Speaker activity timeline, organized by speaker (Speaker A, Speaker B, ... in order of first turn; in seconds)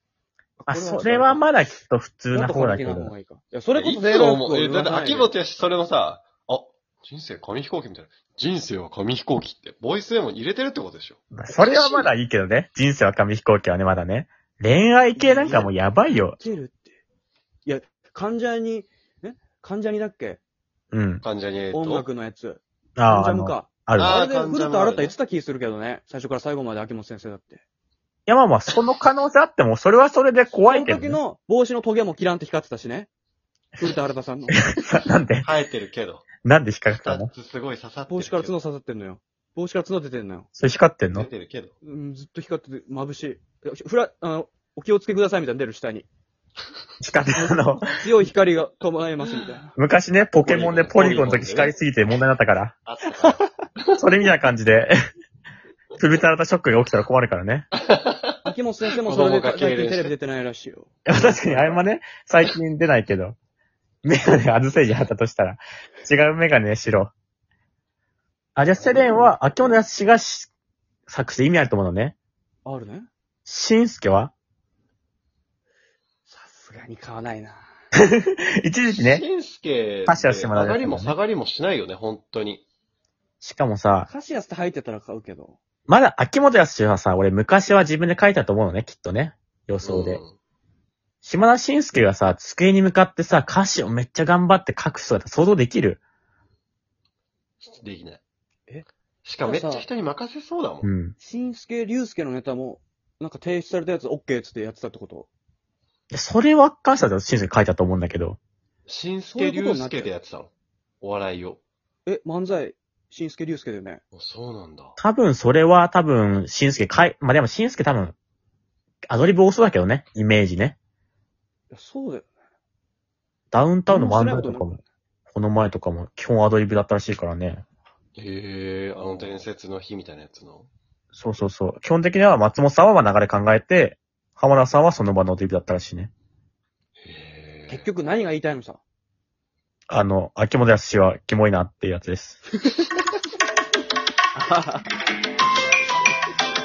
Speaker A: 0.6-1.4, 2.3-5.3, 15.2-17.0, 17.6-20.4, 21.7-27.6, 30.5-33.1, 33.8-34.6, 38.1-40.5, 41.8-46.1, 47.3-49.8, 58.4-61.7, 68.8-69.8, 72.7-73.1, 76.3-77.7, 84.1-85.6, 99.4-99.9, 101.2-105.3, 109.3-110.1, 112.1-114.0, 121.7-122.3, 123.9-124.8, 137.7-138.8, 142.6-142.9, 144.3-144.9
Speaker B: 0.7-3.1, 11.3-16.4, 20.9-21.2, 23.0-24.2, 28.3-31.2, 34.6-35.5, 36.4-37.3, 40.6-41.3, 47.0-47.9, 49.8-52.8, 54.0-54.9, 56.0-57.7, 61.1-63.4, 64.0-67.1, 68.6-70.5, 71.1-72.1, 73.5-74.3, 78.0-79.2, 80.1-81.2, 83.4-84.1, 85.9-90.2, 91.2-96.0, 100.8-101.2, 106.1-108.4, 115.0-118.2, 119.1-120.8, 123.5-127.6, 131.1-136.1, 139.9-142.4
Speaker C: 3.8-12.1, 21.2-22.1, 24.0-25.1, 35.4-36.3, 36.9-38.5, 41.1-41.7, 50.4-51.8, 52.9-54.0, 57.8-58.4, 59.0-60.1, 61.5-61.8, 78.9-82.7, 89.8-90.3, 97.6-98.2, 99.2-100.9, 108.9-111.6, 114.1-115.0, 128.2-130.7, 137.0-137.9